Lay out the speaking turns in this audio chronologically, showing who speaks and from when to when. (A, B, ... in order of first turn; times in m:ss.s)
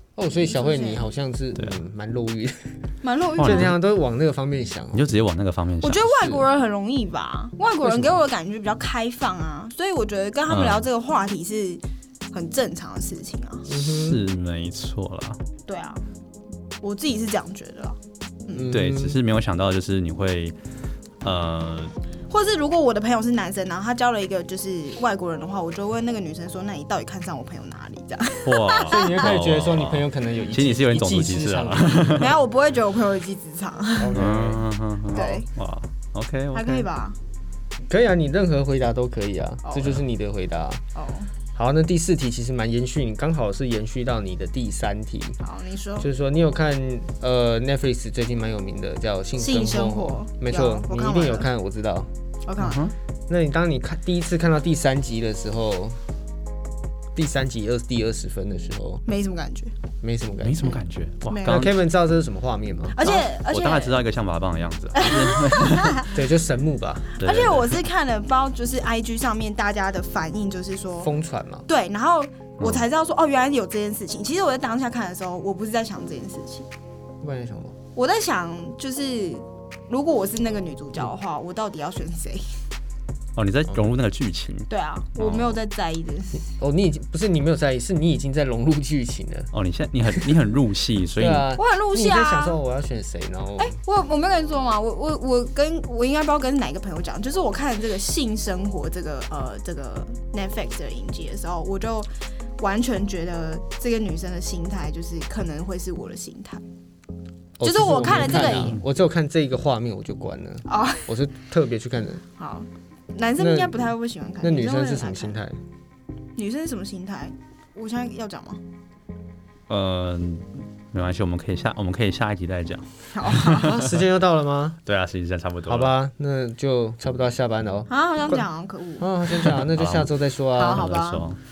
0:00.2-0:02.7 A
0:00.4-0:01.1 B
0:03.0-0:03.8 B
0:03.4-0:03.8 C
0:03.4-0:05.0 A
0:04.9-0:06.3 C
0:05.8-0:13.7 B
0:07.8-0:08.2 A
0:10.5-0:10.9 C
0:13.7-0:14.2 A
0:13.7-0:15.4 C
0:15.6-0:16.0 B
0:16.8-0:18.7 B
0:18.5-0:19.2 A
0:18.7-0:20.6 C
0:21.2-0:22.0 C
0:22.3-0:29.3 B
0:28.4-0:32.3 C
0:28.9-0:32.4 A
0:32.2-0:34.2 B
0:34.0-0:34.6 A
0:34.1-0:36.9 C
0:35.1-0:35.5 B
0:36.5-0:37.2 B
0:37.9-0:40.8 A
0:39.6-0:39.9 B
0:41.0-0:41.3 B
0:41.6-0:45.4 A
0:45.4-0:46.1 B
0:46.0-0:52.1 A
0:49.4-0:51.5 B
0:52.4-0:52.8 B
0:52.6-0:52.9 C
0:53.3-0:56.0 A
0:57.2-0:59.0 A
0:59.1-0:59.7 B
1:00.0-1:00.8 A
1:00.4-1:01.8 C
1:01.3-1:01.6 B
1:01.4-1:03.2 A
1:02.9-1:04.0 B
1:03.0-1:06.0 C
1:04.9-1:06.1 B
1:06.0-1:07.1 A
1:07.2-1:11.1 B
1:07.2-1:07.8 C
1:11.0-1:11.7 A
1:11.7-1:16.7 B
1:12.6-1:12.9 C
1:17.2-1:17.8 A
1:18.0-1:22.5 B
1:23.4-1:25.5 C
1:24.7-1:26.5 B
1:26.5-1:29.5 A
1:29.5-1:31.5 C
1:31.2-1:33.8 A
1:31.6-1:32.6 B
1:33.6-1:46.6 B
1:47.6-1:52.2 A
1:47.6-1:48.8 B
1:48.4-1:48.8 C
1:50.7-1:51.1 B
1:52.4-1:55.4 B
1:53.4-1:53.9 A
1:54.4-1:55.6 A
1:56.4-1:58.6 B
1:59.7-2:04.0 C
2:03.1-2:03.8 B
2:03.5-2:04.8 A
2:04.9-2:05.9 C
2:05.7-2:08.4 A
2:07.9-2:09.1 B
2:09.0-2:10.9 A
2:09.3-2:11.4 C
2:10.6-2:11.2 B